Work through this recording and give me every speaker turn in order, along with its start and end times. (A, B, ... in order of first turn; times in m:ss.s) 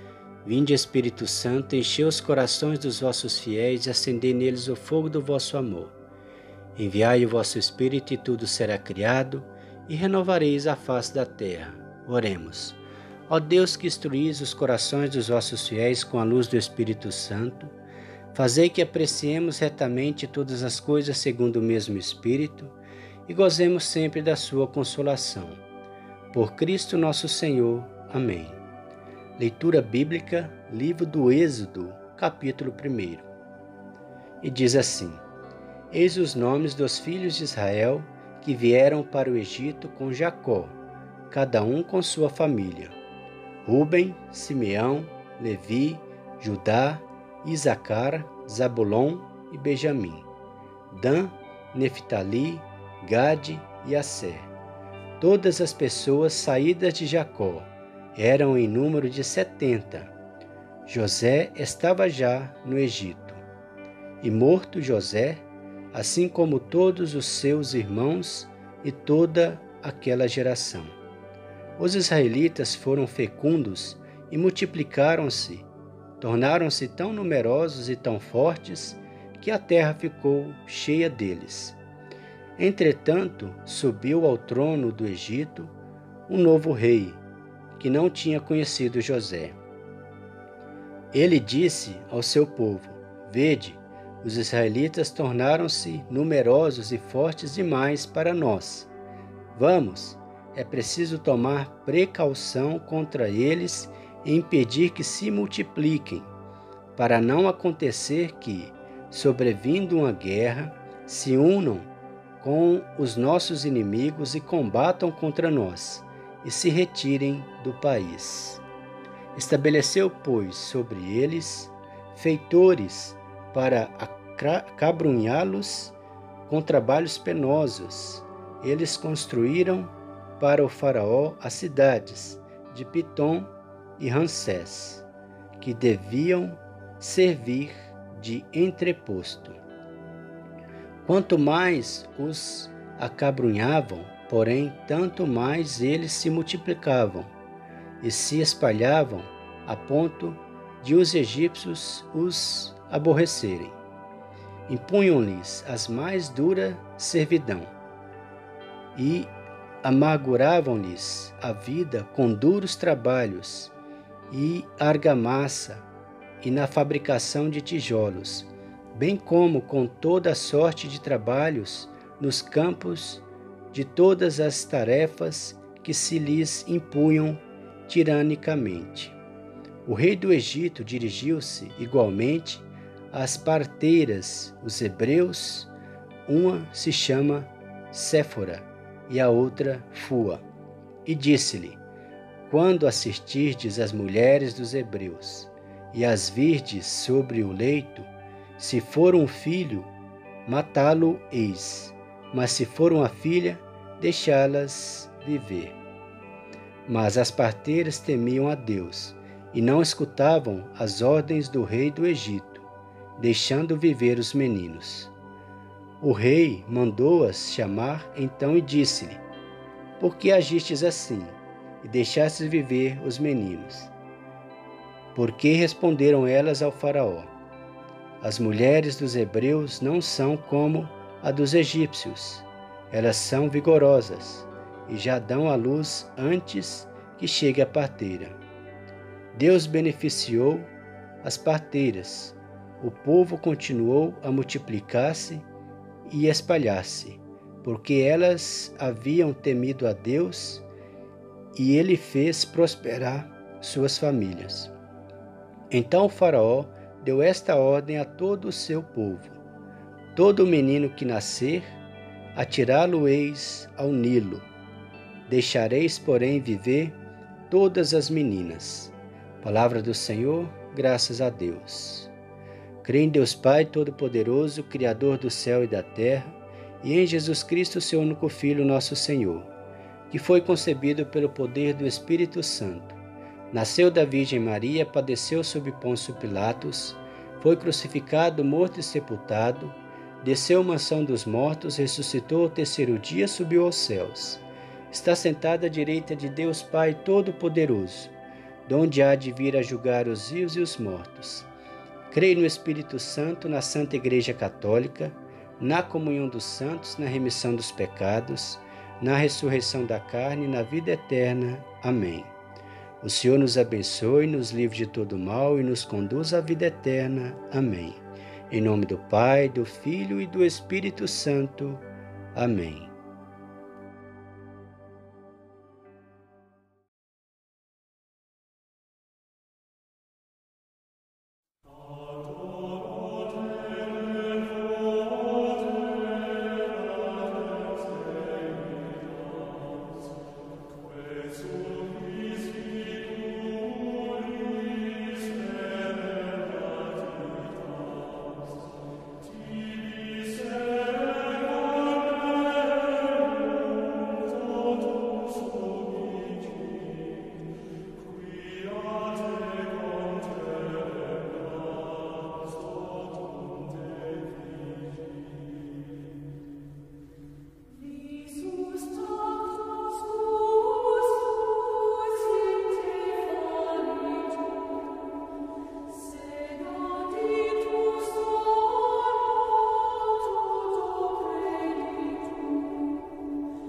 0:00.4-0:06.0 A
0:06.8-0:12.8 A
0:13.3-0:17.8 A
0:18.3-0:22.8 A
0:23.3-0:25.6 A
0:26.3-0:28.6 A
0:29.4-0:33.3 A
0:34.4-0:35.2 A
0:35.9-0:40.7 A
0:41.3-0:43.0 A
0:43.6-0:50.3 A
0:50.9-0:54.5 A
0:55.2-1:00.1 A
1:00.9-1:03.4 A
1:04.2-1:11.0 A
1:11.8-1:15.7 A
1:16.2-1:21.8 A
1:22.6-1:25.8 A
1:26.3-1:27.2 A
1:27.8-1:29.6 A
1:31.1-1:38.9 A
1:39.5-1:46.3 A
1:47.0-1:51.9 A
1:52.4-1:58.6 A
1:59.3-2:06.0 A
2:06.5-2:15.0 A
2:15.6-2:19.6 A
2:21.0-2:27.3 A
2:28.0-2:33.8 A
2:34.7-2:37.7 A
2:38.9-2:43.7 A
2:44.3-2:45.8 A
2:46.4-2:59.2 A
2:59.8-3:05.7 A
3:06.3-3:10.4 A
3:11.1-3:11.8 A
3:12.5-3:19.9 A
3:20.5-3:25.8 A
3:26.9-3:32.7 A
3:33.2-3:35.1 A
3:36.0-3:39.2 A
3:40.0-3:43.9 A
3:45.2-3:47.3 A
3:48.2-3:58.4 A
3:59.3-4:00.7 A
4:01.2-4:05.5 A
4:06.1-4:10.7 A
4:11.5-4:14.7 A
4:15.7-4:19.4 A
4:20.2-4:21.8 A
4:22.4-4:24.5 A
4:25.3-4:27.0 A
4:27.5-4:32.1 A
4:32.8-4:39.5 A
4:40.1-4:43.0 A
4:43.5-4:58.1 A
4:58.7-5:01.5 A
5:02.1-5:12.3 A
5:13.0-5:22.9 A
6:12.1-6:12.7 A
6:17.3-6:18.1 A